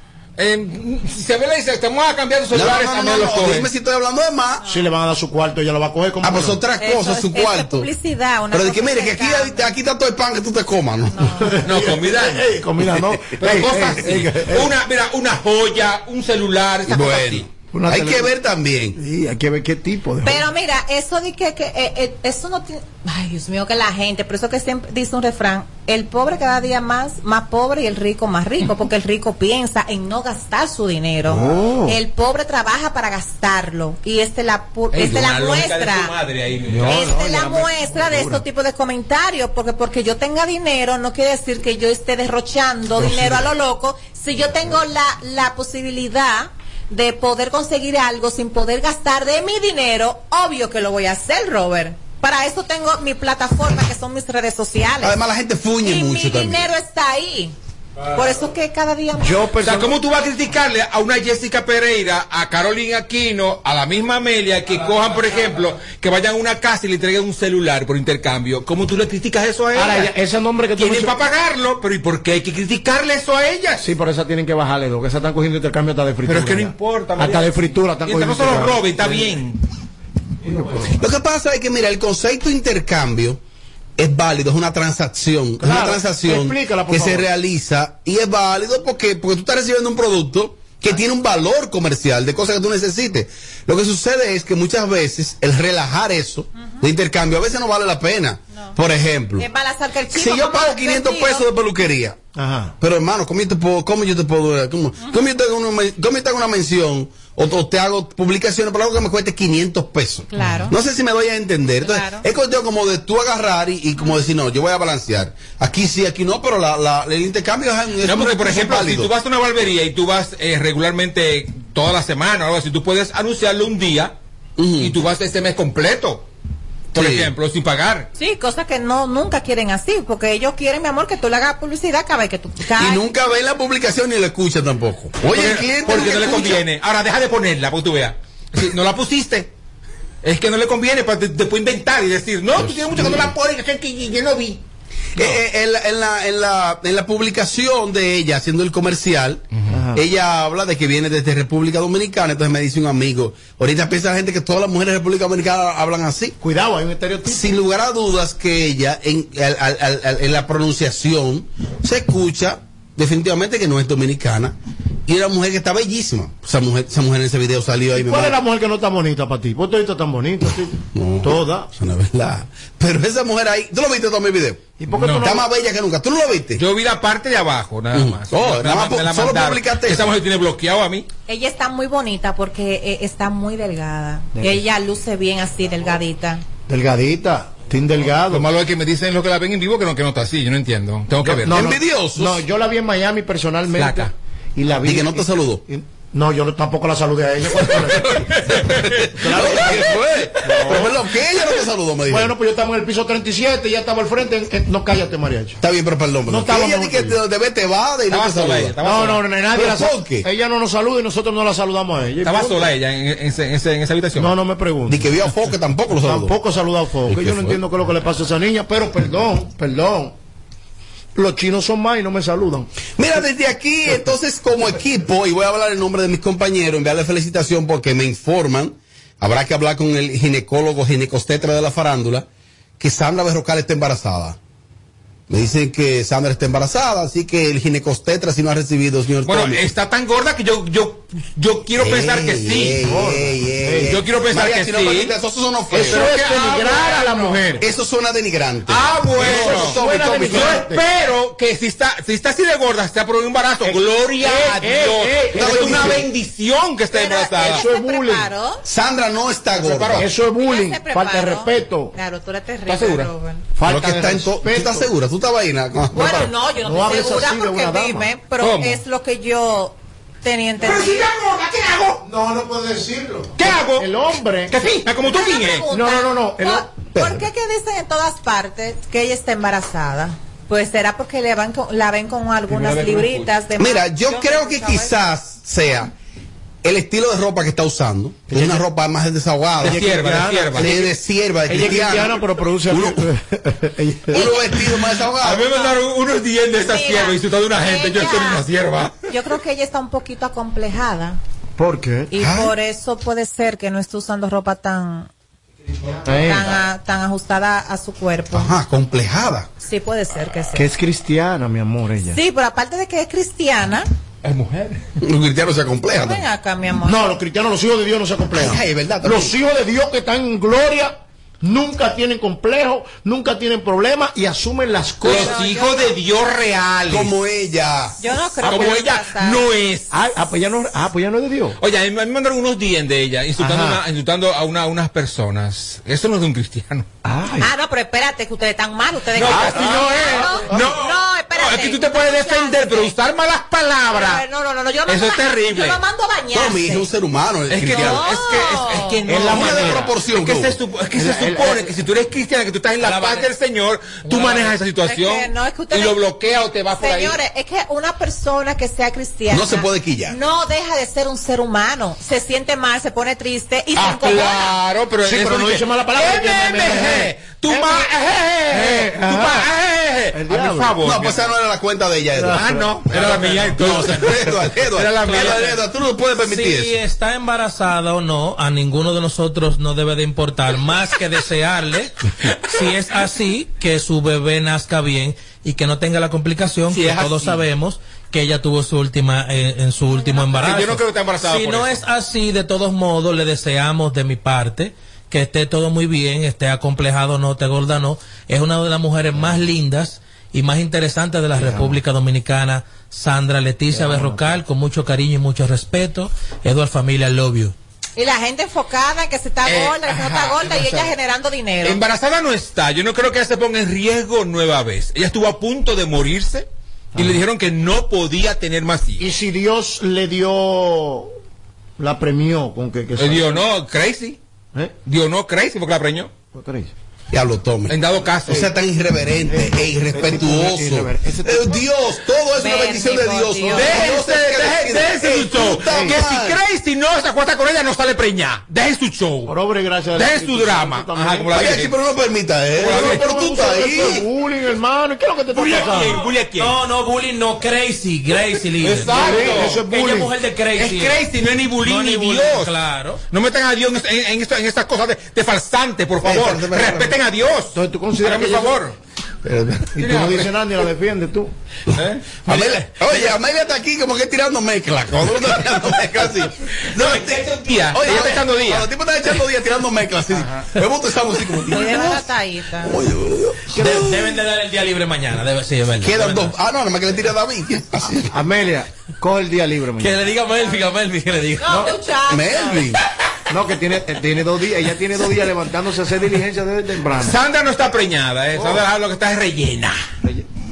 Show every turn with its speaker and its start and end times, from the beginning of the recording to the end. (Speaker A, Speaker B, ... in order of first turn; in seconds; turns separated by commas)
Speaker A: 0.4-3.7, Speaker B: 2.5-4.6, Speaker C: 4.7-6.6, Speaker B: 6.2-7.9, Speaker D: 6.8-9.7, Speaker B: 8.5-11.6, Speaker D: 11.1-11.5, Speaker C: 11.5-14.7, Speaker A: 11.6-12.5, Speaker A: 13.4-17.5, Speaker B: 16.9-19.0, Speaker C: 17.7-18.3, Speaker C: 18.9-20.4, Speaker D: 20.2-36.1, Speaker C: 31.3-32.0, Speaker A: 34.9-37.4, Speaker C: 36.7-38.4, Speaker D: 36.9-55.2, Speaker C: 43.0-43.4, Speaker B: 55.0-56.7, Speaker D: 55.8-57.5, Speaker D: 58.1-59.4, Speaker C: 59.2-59.9, Speaker A: 59.6-70.1, Speaker C: 69.7-71.2, Speaker A: 70.8-73.8, Speaker C: 73.8-79.4, Speaker A: 76.2-79.6, Speaker C: 80.4-81.0, Speaker B: 81.0-83.4, Speaker B: 84.0-99.5, Speaker C: 85.6-87.3, Speaker D: 96.5-96.9, Speaker D: 98.5-98.8, Speaker D: 99.4-101.5, Speaker B: 100.1-102.2, Speaker C: 102.3-102.7, Speaker B: 102.8-119.1, Speaker D: 105.0-105.3, Speaker D: 110.3-110.8, Speaker D: 111.8-112.2, Speaker A: 118.0-124.1, Speaker B: 124.6-124.9, Speaker A: 124.8-126.2, Speaker A: 126.9-128.1, Speaker B: 126.9-127.3, Speaker D: 128.1-133.0, Speaker B: 132.7-136.6, Speaker A: 135.3-139.5, Speaker A: 140.2-144.6, Speaker B: 142.6-143.3, Speaker B: 145.2-156.3, Speaker C: 149.7-150.0, Speaker C: 156.4-157.5, Speaker B: 157.3-164.5, Speaker B: 165.1-168.4, Speaker C: 168.0-171.7, Speaker B: 170.9-176.6, Speaker C: 174.8-175.5, Speaker A: 175.0-175.3, Speaker A: 176.6-181.1, Speaker B: 177.9-180.1, Speaker D: 181.3-186.4, Speaker C: 184.3-184.6, Speaker C: 186.7-188.5, Speaker A: 188.3-191.7, Speaker C: 191.2-201.0, Speaker B: 191.5-192.4, Speaker A: 193.8-194.1, Speaker B: 194.8-195.6, Speaker B: 199.0-202.3, Speaker C: 202.1-205.6, Speaker B: 205.6-208.7, Speaker C: 206.3-207.2, Speaker A: 208.1-209.2, Speaker C: 208.8-212.7, Speaker B: 209.5-210.2, Speaker A: 212.2-214.3, Speaker C: 214.2-215.1, Speaker B: 214.9-216.3, Speaker C: 216.0-220.1, Speaker B: 217.1-217.6, Speaker C: 221.1-222.7, Speaker B: 223.0-232.3, Speaker B: 232.8-234.4, Speaker B: 235.3-239.6, Speaker A: 239.2-242.8, Speaker B: 241.8-246.1, Speaker C: 242.8-244.0, Speaker A: 243.8-245.1, Speaker C: 245.7-247.6, Speaker A: 245.7-247.6, Speaker B: 247.6-250.6, Speaker A: 248.7-257.7, Speaker C: 249.2-250.8, Speaker C: 253.6-256.1, Speaker B: 255.3-256.1, Speaker D: 256.9-258.6, Speaker C: 257.4-258.3, Speaker B: 258.6-260.1, Speaker A: 259.6-260.1, Speaker C: 260.0-261.9, Speaker D: 260.4-263.4, Speaker A: 262.7-263.1, Speaker C: 263.6-264.9, Speaker B: 263.7-266.3, Speaker D: 265.9-271.1, Speaker C: 266.6-268.1, Speaker A: 268.4-268.8, Speaker A: 270.6-272.0, Speaker C: 272.0-274.6, Speaker A: 273.4-273.9, Speaker A: 274.5-275.7, Speaker D: 275.0-284.9, Speaker C: 275.7-276.9, Speaker B: 276.9-277.3, Speaker A: 282.5-283.3, Speaker B: 283.6-285.9, Speaker B: 286.6-289.9, Speaker C: 288.3-288.6, Speaker A: 289.6-290.8, Speaker C: 289.6-290.9, Speaker B: 290.5-293.0, Speaker C: 291.5-294.3, Speaker B: 294.1-295.5, Speaker D: 294.1-294.6, Speaker A: 295.2-299.0, Speaker D: 296.7-298.4, Speaker D: 299.1-301.2, Speaker C: 301.6-302.1, Speaker D: 302.1-305.1, Speaker B: 302.2-302.5, Speaker C: 306.0-306.6, Speaker D: 306.2-308.5, Speaker B: 308.3-309.5, Speaker D: 309.6-310.7, Speaker C: 310.5-312.2, Speaker D: 312.1-313.9, Speaker A: 314.2-314.8, Speaker B: 315.0-316.2, Speaker D: 316.0-317.2, Speaker C: 316.8-325.4, Speaker B: 318.3-319.3, Speaker A: 325.0-327.1, Speaker D: 325.1-325.9, Speaker B: 326.9-328.0, Speaker D: 328.0-329.4, Speaker A: 328.4-330.0, Speaker C: 329.9-331.6, Speaker A: 331.6-336.9, Speaker C: 333.4-333.8, Speaker C: 337.0-337.5, Speaker D: 337.4-342.9, Speaker A: 339.1-344.2, Speaker C: 339.2-340.7, Speaker D: 343.9-346.9, Speaker A: 344.9-345.8, Speaker B: 346.3-348.1, Speaker A: 347.5-357.2, Speaker D: 347.7-349.0, Speaker C: 349.1-349.9, Speaker B: 349.1-350.6, Speaker C: 350.9-351.7, Speaker E: 352.8-353.2, Speaker D: 354.8-364.6, Speaker B: 359.3-360.2, Speaker A: 363.7-371.3, Speaker C: 365.0-367.9, Speaker C: 368.5-369.5, Speaker C: 370.1-370.8, Speaker B: 370.8-376.7, Speaker C: 372.1-372.8, Speaker A: 372.3-375.6, Speaker E: 375.1-375.4, Speaker E: 376.2-407.5, Speaker A: 386.7-387.4, Speaker A: 390.2-391.8, Speaker C: 401.4-401.8, Speaker C: 403.7-404.4, Speaker D: 408.0-411.8, Speaker A: 409.4-410.9, Speaker A: 411.6-419.1, Speaker C: 416.9-417.2, Speaker C: 419.0-421.1, Speaker C: 421.8-423.4, Speaker A: 423.0-424.2, Speaker A: 424.9-426.1, Speaker C: 426.3-426.7, Speaker B: 427.1-436.4, Speaker A: 427.7-428.4, Speaker C: 429.2-431.6, Speaker D: 432.4-433.8, Speaker A: 433.5-439.3, Speaker C: 439.2-441.6, Speaker A: 439.9-441.8, Speaker B: 441.3-444.1, Speaker A: 442.5-443.9, Speaker C: 442.6-446.0, Speaker A: 445.3-446.5, Speaker E: 445.7-451.0, Speaker A: 448.6-449.7, Speaker C: 448.9-450.1, Speaker A: 450.5-452.5, Speaker E: 451.6-453.0, Speaker A: 453.1-458.7, Speaker B: 456.0-456.9, Speaker C: 457.5-458.6, Speaker B: 459.2-459.7, Speaker C: 459.7-461.3, Speaker A: 459.8-460.3, Speaker A: 461.7-462.3, Speaker B: 462.2-467.2, Speaker A: 466.7-468.7, Speaker B: 467.7-472.1, Speaker D: 471.5-472.8, Speaker B: 472.6-474.1, Speaker E: 473.6-476.3, Speaker C: 473.6-473.8, Speaker B: 475.8-478.1, Speaker C: 478.1-480.0, Speaker E: 479.8-481.6, Speaker D: 481.4-482.7, Speaker C: 481.5-481.8, Speaker B: 482.1-482.8, Speaker C: 483.3-487.2, Speaker A: 487.0-489.8, Speaker C: 488.3-488.6